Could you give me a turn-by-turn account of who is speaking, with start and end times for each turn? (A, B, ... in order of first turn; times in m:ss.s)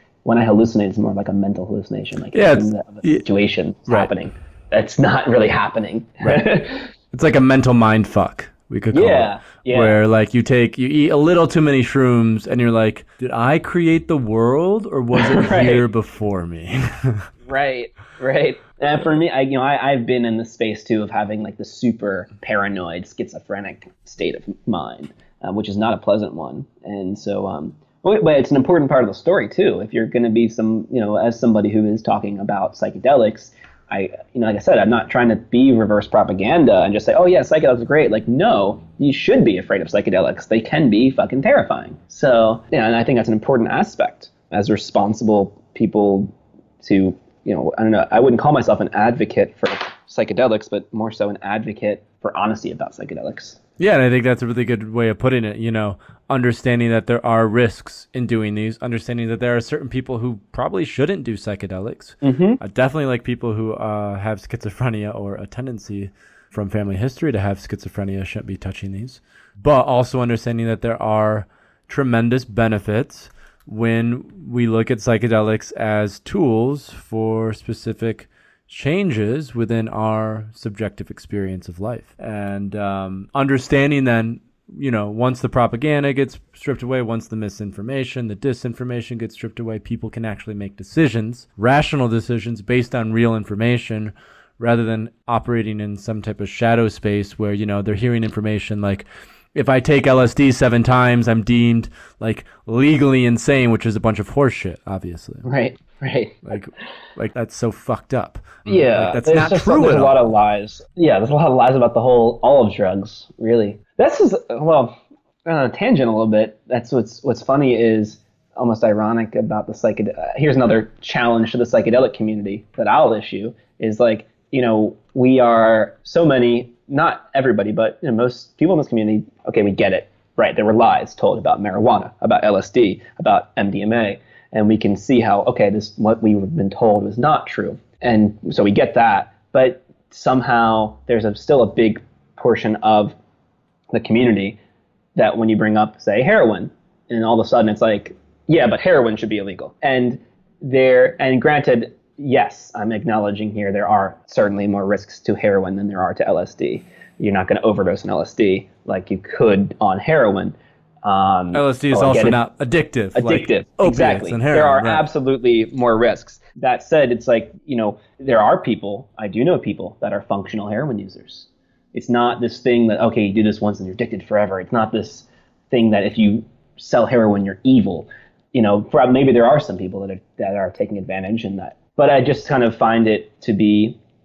0:00.2-0:06.9 A
0:02.3-0:03.3 B
0:07.1-0:17.3 B
0:08.9-0:10.0 A
0:15.1-0:15.8 A
0:17.5-0:53.6 A
0:53.8-1:45.5 B
1:02.2-1:02.6 A
1:45.4-1:46.5 A
1:46.4-1:50.2 B
1:48.7-2:23.2 A
2:23.9-2:24.6 A
2:25.2-2:42.4 A
2:41.5-2:45.0 B
2:43.2-3:04.0 A